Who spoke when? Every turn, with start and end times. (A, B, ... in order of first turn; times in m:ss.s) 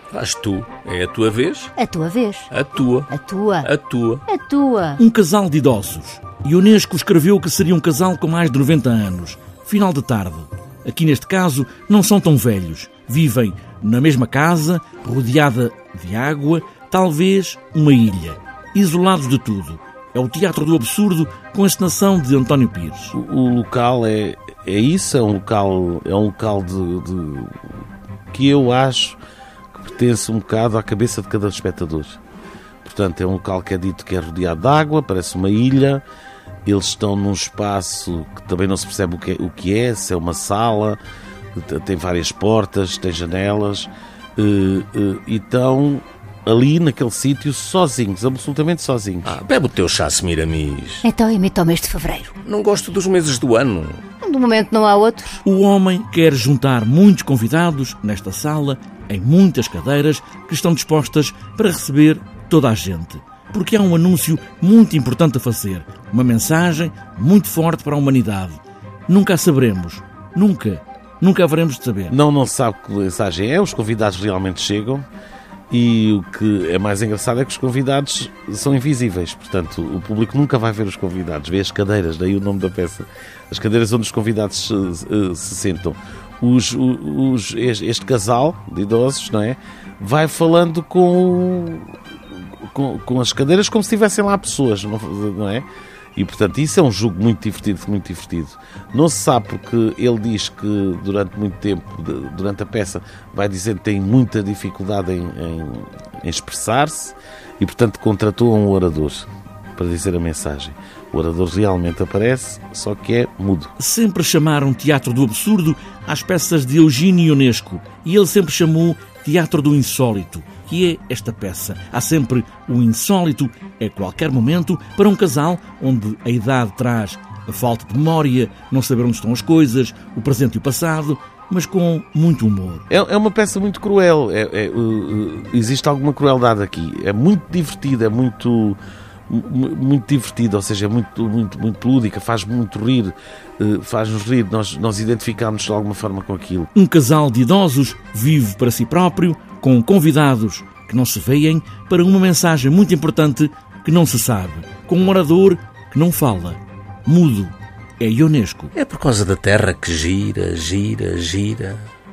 0:00.1-0:01.7 A
0:01.8-0:02.5 B
0:02.5-0:03.1 A
0:03.1-0:03.7 B
0:03.6-0:04.2 A
0:04.3-0:05.0 B
0:05.0-0:23.2 C
0:23.1-0:27.6 D
0:28.3-0:29.2 D
0:29.7-0:32.2 D
0:32.8-0:36.0 D
0:36.7-0:41.0 D
0:41.6-0:49.4 D
0:49.3-0:51.0 A
0:51.0-0:52.4 B
0:52.4-0:54.0 A
0:54.2-0:55.4 B
0:55.4-1:12.2 C
1:12.1-1:15.1 D
1:15.7-1:32.0 D
1:32.6-1:53.7 D
1:53.8-2:12.9 C
2:12.9-2:26.7 D
2:26.7-2:38.7 C
2:38.8-2:41.9 A